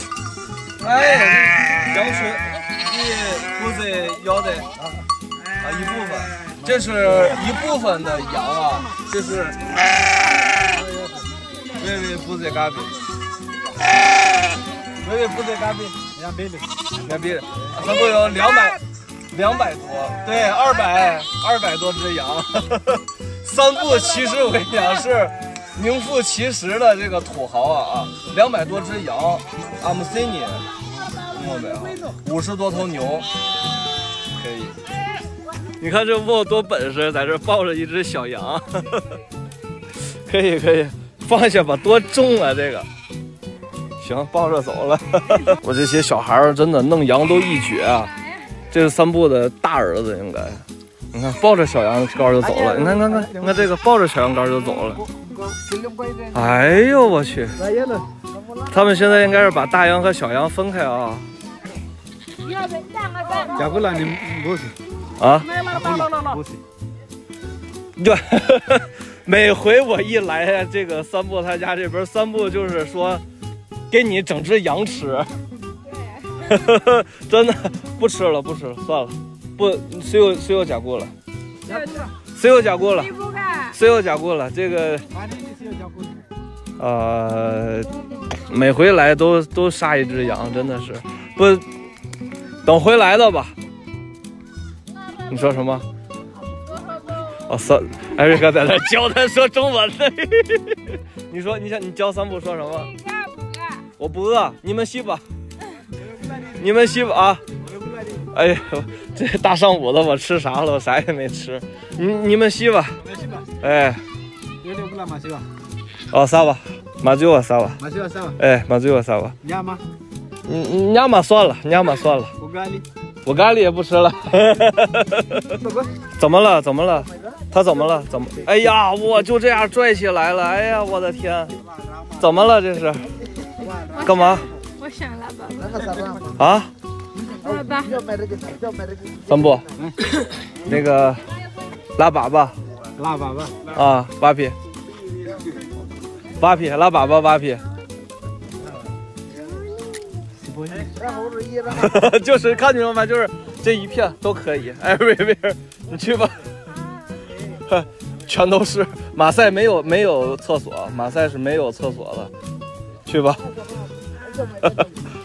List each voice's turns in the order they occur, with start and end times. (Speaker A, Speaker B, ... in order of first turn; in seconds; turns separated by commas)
Speaker A: 0.8-4.7, Speaker A: 5.6-9.7, Speaker B: 10.7-11.2, Speaker A: 11.8-12.9, Speaker A: 15.0-16.0, Speaker B: 16.1-16.7, Speaker A: 17.0-18.8, Speaker A: 19.3-30.6, Speaker A: 31.3-33.3, Speaker A: 34.3-34.8, Speaker A: 35.8-39.2, Speaker A: 40.1-42.9, Speaker A: 44.0-48.1, Speaker A: 48.7-50.6, Speaker A: 51.1-55.0, Speaker B: 52.9-53.4, Speaker B: 55.4-56.3, Speaker A: 56.3-57.6, Speaker B: 57.6-58.1, Speaker A: 58.7-61.3, Speaker C: 62.4-63.8, Speaker B: 63.6-64.7, Speaker A: 65.2-65.5, Speaker B: 65.7-66.6, Speaker A: 68.0-73.2, Speaker A: 73.9-75.3, Speaker C: 76.0-76.3, Speaker A: 76.4-81.1, Speaker C: 81.7-82.1, Speaker A: 82.3-83.1, Speaker C: 83.0-83.8, Speaker A: 83.7-85.0, Speaker B: 85.1-86.3, Speaker A: 86.8-91.6, Speaker A: 92.6-93.5, Speaker A: 95.3-95.8, Speaker A: 97.5-102.9, Speaker C: 102.8-103.8, Speaker A: 104.0-105.2, Speaker A: 106.5-107.4, Speaker B: 107.8-108.2, Speaker A: 108.3-113.0, Speaker B: 113.1-113.4, Speaker A: 113.6-114.0, Speaker B: 114.6-115.5, Speaker A: 116.1-117.8, Speaker B: 117.8-118.3, Speaker A: 118.4-119.3, Speaker B: 119.4-119.8, Speaker A: 120.5-122.3, Speaker B: 122.4-122.8, Speaker A: 123.2-125.6, Speaker B: 125.6-125.9, Speaker A: 126.2-131.6, Speaker A: 132.2-133.1, Speaker C: 133.8-135.9, Speaker A: 134.0-134.5, Speaker B: 135.9-136.2, Speaker A: 136.3-136.7, Speaker C: 137.3-138.2, Speaker A: 139.3-139.7, Speaker A: 140.6-141.2, Speaker A: 142.0-142.6, Speaker B: 142.9-143.6, Speaker A: 143.7-144.6, Speaker A: 146.4-147.6, Speaker B: 150.4-151.5, Speaker A: 151.6-156.4, Speaker A: 157.7-162.3, Speaker A: 163.1-163.5